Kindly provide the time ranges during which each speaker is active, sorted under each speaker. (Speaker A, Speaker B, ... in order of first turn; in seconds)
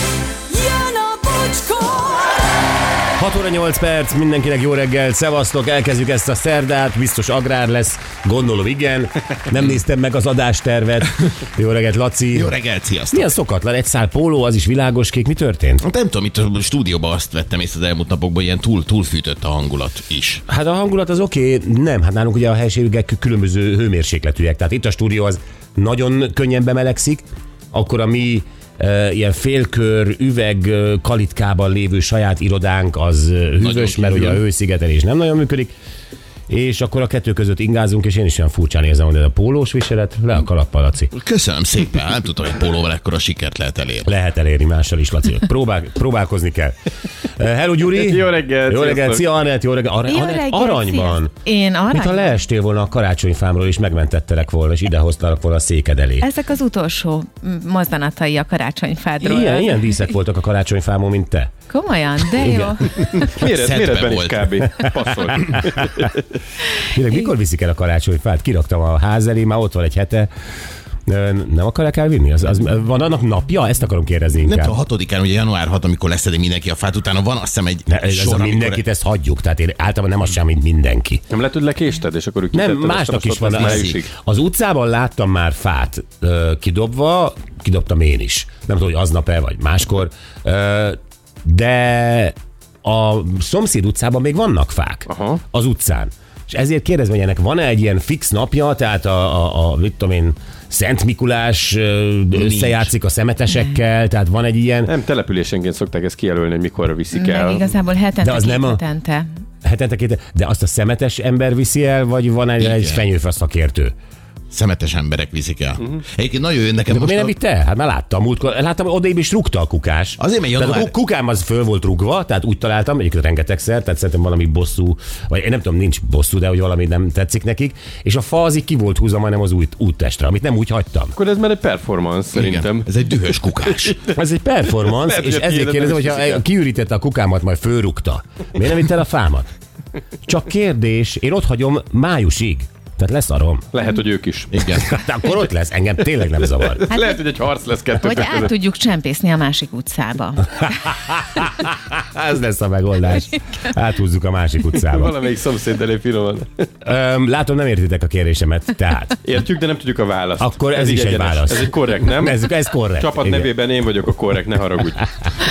Speaker A: 0.5-2.6
Speaker B: 3.2-12.5, 13.1-15.8, 20.5-35.7, 36.5-41.1, 44.0-51.3, 51.9-56.3, 59.2-61.5, 62.3-62.8, 66.8-70.3, 71.0-74.8, 77.9-81.2, 82.5-104.9, 108.2-108.8, 109.6-113.9, 116.9-131.1, 134.1-139.5, 140.2-143.7, 144.7-146.8, 150.9-155.2, 156.8-159.2, 160.4-163.5
Speaker C: 12.3-13.3, 15.8-20.4, 33.6-34.4, 41.1-44.1, 63.4-64.8, 74.4-78.8, 83.5-84.0, 102.3-102.9, 112.6-113.0, 114.5-117.3, 120.2-120.9, 132.3-134.0, 144.5-144.9
Speaker D: 47.8-49.2, 63.1-66.2, 81.3-84.1, 95.1-95.4, 104.8-107.7, 131.1-132.9, 133.8-134.2, 134.8-136.4, 143.7-144.8, 146.7-148.5, 154.9-156.7, 159.2-165.1
Speaker E: 50.1-52.3, 56.2-59.9, 61.7-63.0, 107.1-109.3, 148.0-150.8